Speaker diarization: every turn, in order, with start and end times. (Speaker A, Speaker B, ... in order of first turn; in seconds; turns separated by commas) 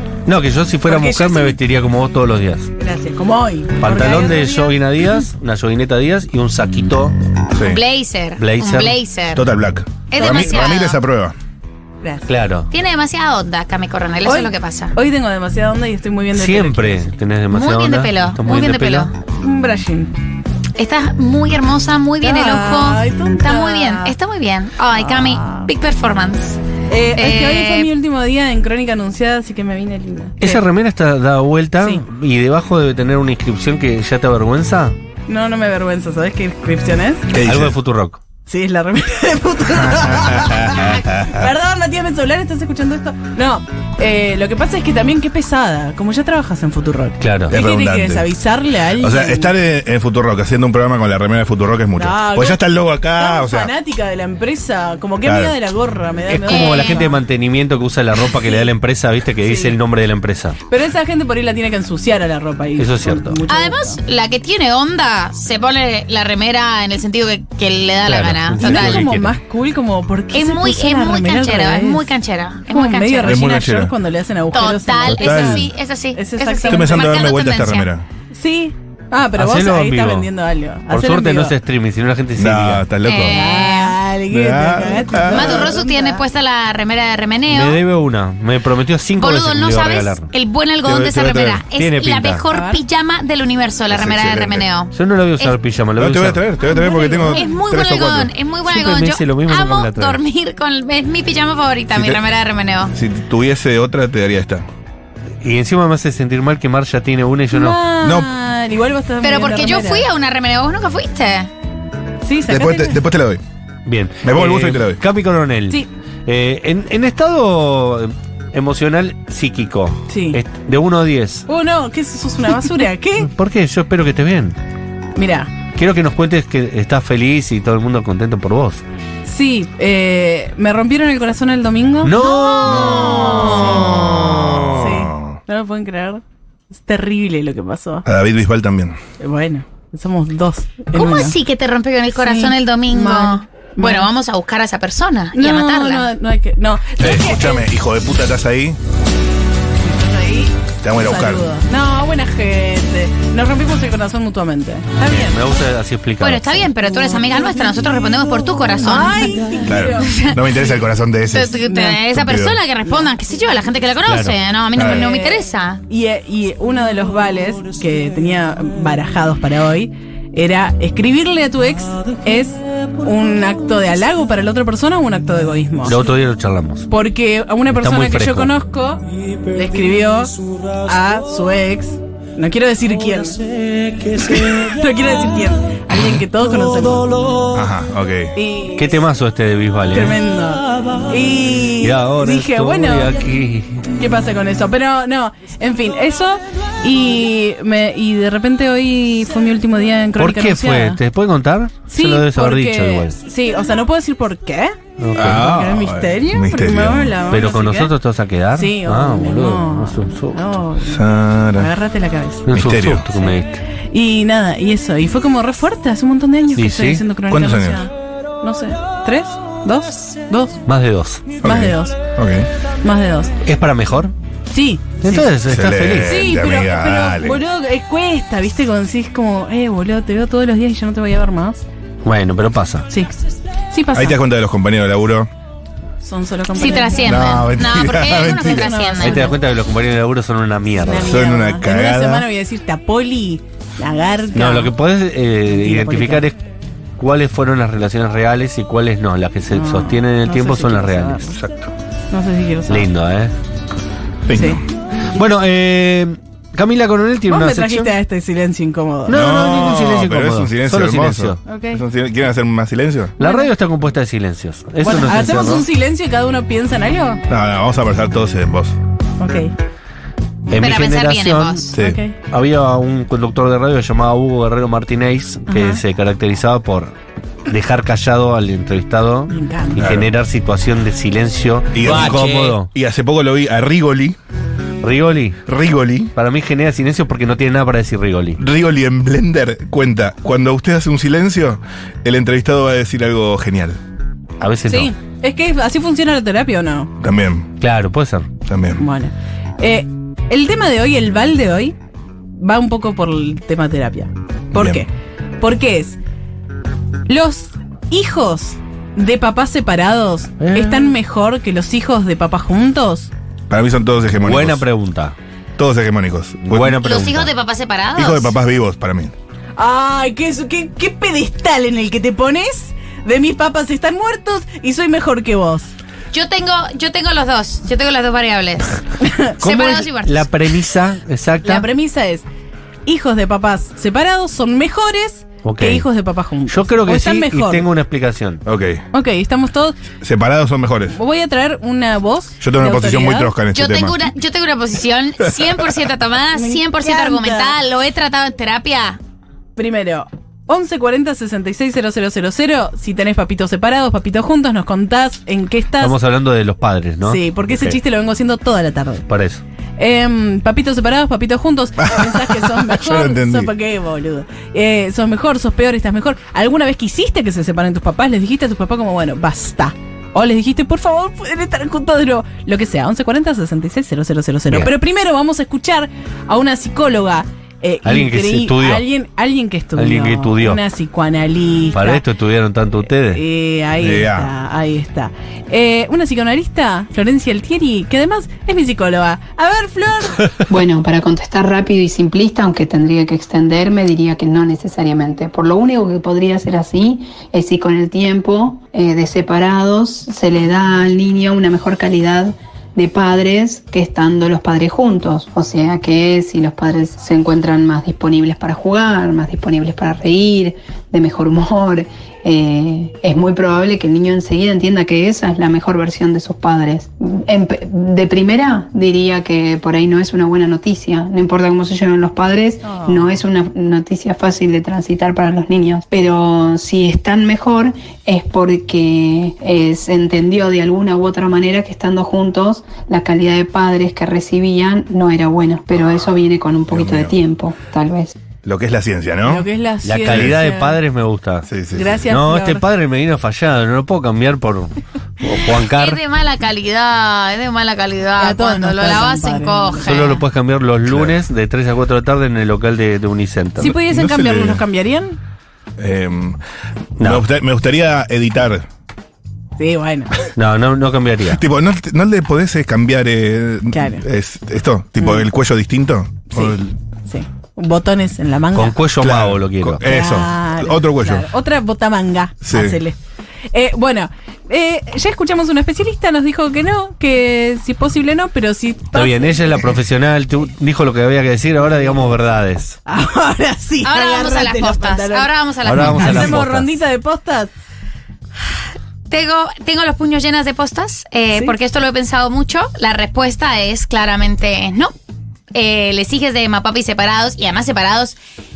Speaker A: 0.2-2.7, Speaker B: 0.8-1.6, Speaker B: 2.8-5.2, Speaker A: 3.8-7.1, Speaker C: 7.7-9.4, Speaker A: 8.4-9.0, Speaker D: 9.3-11.3, Speaker C: 10.1-11.0, Speaker A: 12.3-12.7, Speaker C: 12.7-14.9, Speaker B: 14.2-17.1, Speaker A: 16.3-19.1, Speaker C: 17.5-19.1, Speaker B: 19.4-20.1, Speaker C: 20.8-26.6, Speaker B: 22.2-24.1, Speaker B: 25.0-25.7, Speaker B: 26.9-30.6, Speaker C: 27.1-27.9, Speaker A: 30.4-35.0, Speaker B: 35.3-37.3, Speaker D: 37.3-37.7, Speaker A: 37.4-38.2, Speaker B: 38.5-49.5, Speaker D: 39.9-41.5, Speaker A: 47.2-47.6, Speaker D: 47.5-48.2, Speaker D: 49.0-53.7, Speaker B: 52.0-57.2, Speaker D: 55.2-55.5, Speaker A: 56.3-60.6, Speaker C: 56.5-57.0, Speaker B: 59.4-59.8, Speaker B: 60.7-64.0, Speaker A: 62.8-63.4, Speaker C: 63.5-69.0, Speaker A: 68.0-69.3, Speaker B: 68.6-72.1, Speaker C: 70.3-73.4, Speaker B: 72.7-77.1, Speaker D: 73.2-73.9, Speaker C: 74.5-77.9, Speaker D: 75.1-75.6, Speaker D: 76.7-78.0, Speaker B: 78.3-81.5, Speaker A: 79.3-80.3, Speaker A: 80.9-82.9, Speaker D: 82.3-83.3, Speaker C: 83.0-84.0, Speaker B: 83.2-86.2, Speaker D: 84.3-85.6, Speaker C: 85.3-87.8, Speaker A: 87.5-90.3, Speaker C: 89.2-95.5, Speaker D: 90.8-91.6, Speaker A: 91.7-92.4, Speaker B: 92.5-92.8, Speaker D: 93.9-94.7, Speaker A: 94.9-96.4, Speaker D: 96.0-98.3, Speaker B: 96.7-97.6, Speaker C: 96.8-102.9, Speaker A: 98.7-100.2, Speaker D: 101.9-102.2, Speaker D: 102.9-104.6, Speaker A: 105.4-107.8, Speaker B: 107.5-110.1, Speaker C: 109.2-111.5, Speaker B: 112.2-113.0, Speaker D: 112.5-113.4, Speaker A: 113.8-121.5, Speaker D: 114.2-115.0, Speaker B: 120.1-120.4, Speaker B: 121.5-123.3, Speaker A: 123.2-124.6, Speaker B: 125.2-125.5, Speaker A: 125.7-128.8, Speaker B: 129.2-132.2, Speaker A: 132.0-133.7, Speaker C: 132.2-134.1, Speaker D: 132.7-135.4, Speaker B: 132.8-133.8, Speaker B: 134.8-138.0, Speaker D: 138.1-139.0, Speaker B: 139.2-141.3, Speaker C: 140.9-146.1, Speaker B: 142.1-144.1, Speaker B: 145.3-147.7, Speaker D: 147.0-148.8, Speaker B: 149.8-155.3, Speaker D: 150.8-151.4, Speaker A: 155.0-156.7, Speaker C: 156.2-160.4, Speaker B: 158.8-160.1, Speaker D: 159.7-161.6, Speaker C: 161.3-165.8, Speaker B: 161.6-162.0, Speaker D: 162.1-162.6, Speaker A: 164.1-164.3, Speaker B: 164.8-176.0, Speaker A: 175.8-176.9, Speaker B: 176.9-180.3, Speaker A: 177.7-178.5, Speaker B: 180.8-183.4, Speaker B: 184.1-187.1, Speaker D: 187.5-188.3, Speaker B: 188.3-188.9, Speaker A: 188.8-190.2, Speaker B: 189.9-193.2, Speaker A: 191.8-193.9, Speaker B: 193.9-201.0, Speaker A: 200.2-203.2, Speaker B: 201.9-207.9, Speaker A: 205.0-205.6, Speaker D: 205.2-207.1, Speaker A: 207.3-210.4, Speaker B: 208.5-211.0, Speaker D: 210.8-211.7, Speaker B: 211.5-212.5, Speaker A: 212.5-213.6, Speaker D: 212.5-213.1, Speaker B: 213.9-220.6, Speaker A: 216.6-217.0, Speaker D: 217.3-217.8, Speaker A: 220.7-221.4, Speaker B: 221.4-222.0, Speaker D: 221.4-222.4, Speaker B: 222.8-223.3, Speaker A: 223.4-224.1, Speaker B: 224.5-225.3, Speaker A: 225.0-226.2, Speaker D: 225.5-227.4, Speaker B: 226.0-231.6, Speaker A: 232.0-232.9, Speaker B: 233.7-234.2, Speaker D: 233.9-235.3, Speaker B: 236.0-237.3, Speaker C: 236.6-239.2, Speaker D: 237.1-238.7, Speaker B: 238.2-239.4, Speaker A: 239.0-241.2, Speaker B: 240.8-244.7, Speaker D: 241.0-242.2, Speaker A: 244.3-246.4, Speaker B: 245.5-246.3, Speaker A: 247.0-251.3, Speaker B: 249.5-251.3, Speaker D: 251.3-251.7, Speaker B: 252.1-252.9, Speaker A: 252.7-253.3, Speaker D: 254.3-254.6, Speaker B: 254.3-254.6, Speaker A: 255.1-257.9, Speaker B: 257.3-259.2, Speaker A: 259.1-261.4, Speaker D: 259.1-263.1, Speaker B: 261.4-261.8, Speaker A: 263.2-265.6, Speaker B: 263.2-263.5, Speaker B: 264.8-267.2, Speaker D: 267.3-268.7, Speaker B: 269.2-269.5, Speaker A: 270.5-271.6, Speaker C: 270.6-271.7, Speaker B: 271.7-272.2, Speaker A: 272.3-276.9, Speaker B: 275.5-275.8, Speaker A: 277.5-282.7, Speaker B: 279.3-279.9, Speaker D: 279.8-280.1, Speaker D: 281.7-284.2, Speaker A: 284.8-285.4, Speaker D: 285.5-286.1, Speaker A: 286.1-288.4, Speaker D: 288.4-293.8, Speaker A: 294.4-294.9, Speaker B: 294.7-296.9, Speaker D: 297.0-297.5, Speaker A: 297.6-298.3, Speaker D: 298.4-298.8, Speaker B: 298.8-301.8, Speaker B: 302.4-306.0, Speaker D: 304.5-304.8, Speaker B: 307.1-313.1, Speaker A: 310.4-310.9, Speaker D: 313.5-314.6, Speaker A: 314.2-315.1, Speaker D: 315.6-316.8, Speaker A: 316.4-317.3, Speaker C: 316.8-318.3, Speaker D: 317.9-319.1, Speaker B: 319.6-325.7, Speaker C: 326.1-328.8, Speaker B: 329.0-329.3, Speaker C: 329.4-330.3, Speaker A: 329.4-331.6, Speaker B: 331.4-332.2, Speaker B: 332.9-337.7, Speaker A: 335.4-335.9, Speaker A: 336.5-338.4, Speaker D: 338.4-338.8, Speaker B: 338.9-339.8, Speaker D: 340.0-340.9, Speaker B: 340.9-343.3, Speaker D: 342.4-343.9, Speaker C: 343.5-349.0, Speaker B: 346.3-347.6, Speaker B: 349.6-355.9, Speaker A: 355.8-357.8, Speaker B: 357.1-359.1, Speaker A: 359.1-359.4, Speaker B: 359.8-382.0, Speaker D: 361.9-363.5, Speaker A: 377.8-378.8, Speaker A: 379.8-380.6, Speaker A: 381.7-383.2, Speaker B: 383.1-390.2, Speaker D: 383.8-384.3, Speaker E: 390.5-438.1, Speaker B: 422.6-423.2, Speaker D: 436.7-437.1, Speaker D: 438.4-439.4, Speaker B: 439.2-440.8, Speaker A: 439.8-441.5, Speaker D: 441.5-441.9, Speaker B: 441.7-442.6, Speaker A: 442.1-446.0, Speaker C: 445.6-450.2, Speaker B: 448.2-449.9, Speaker A: 449.8-453.8, Speaker D: 450.9-451.1, Speaker B: 453.6-455.2, Speaker D: 453.8-454.6, Speaker D: 455.8-456.4, Speaker A: 457.0-457.2, Speaker D: 457.0-458.6, Speaker B: 459.6-460.1, Speaker A: 460.4-461.4, Speaker D: 461.3-466.6, Speaker B: 463.7-464.0, Speaker B: 465.0-465.3, Speaker B: 466.3-468.8, Speaker A: 468.5-469.8, Speaker D: 469.0-471.2, Speaker B: 469.8-473.0, Speaker D: 472.4-472.8, Speaker B: 473.5-479.7, Speaker A: 478.9-482.8, Speaker B: 481.6-482.1, Speaker B: 482.9-487.5, Speaker C: 483.8-486.4, Speaker A: 485.6-486.7, Speaker C: 489.1-494.9, Speaker C: 495.5-498.2